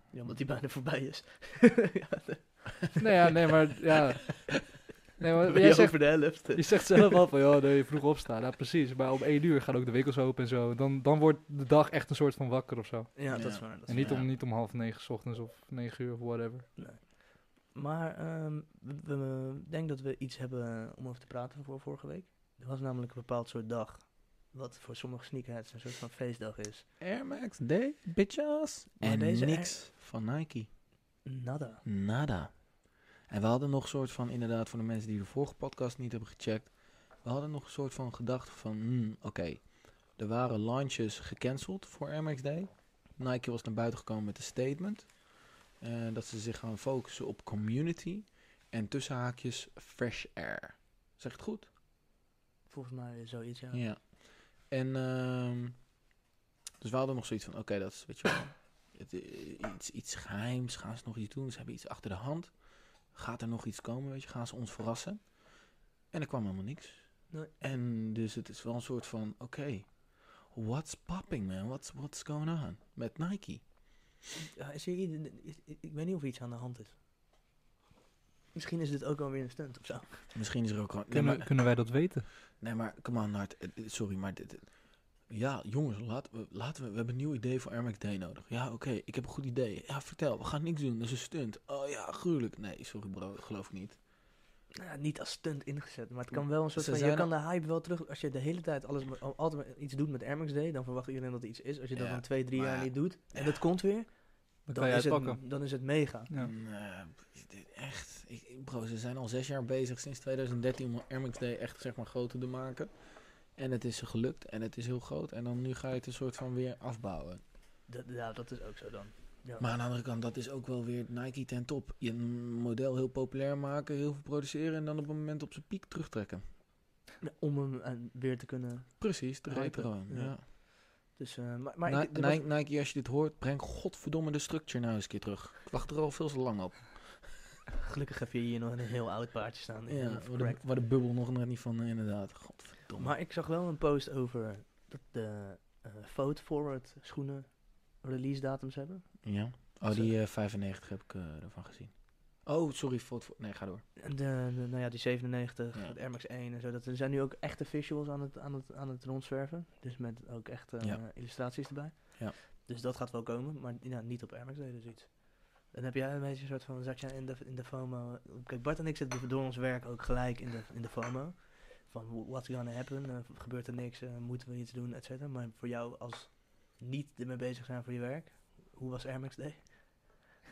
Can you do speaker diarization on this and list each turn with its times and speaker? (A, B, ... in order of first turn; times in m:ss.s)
0:00.1-0:03.3 A
0:03.0-0:16.7 B
0:05.5-0:07.2 A
0:13.2-0:14.2 A
0:13.3-0:14.3 C
0:16.8-0:26.8 A
0:27.0-0:30.7 C
0:29.0-0:29.8 A
0:31.2-0:31.8 A
0:31.8-0:51.7 C
0:52.7-0:53.8 A
0:53.7-0:55.9 C
0:56.8-1:13.6 C
1:14.4-1:17.0 A
1:18.5-1:20.3 A
1:20.3-1:34.0 C
1:21.1-1:22.3 B
1:34.7-1:46.3 A
1:36.3-1:37.3 C
1:41.9-1:43.6 C
1:44.6-1:45.4 B
1:46.4-1:57.4 C
1:57.9-1:59.6 A
1:59.6-2:06.4 C
2:07.2-2:12.5 A
2:09.0-2:10.4 C
2:11.8-2:17.4 C
2:17.8-2:20.6 A
2:19.9-2:23.1 C
2:22.9-2:30.1 A
2:29.2-2:33.8 C
2:34.0-2:59.7 A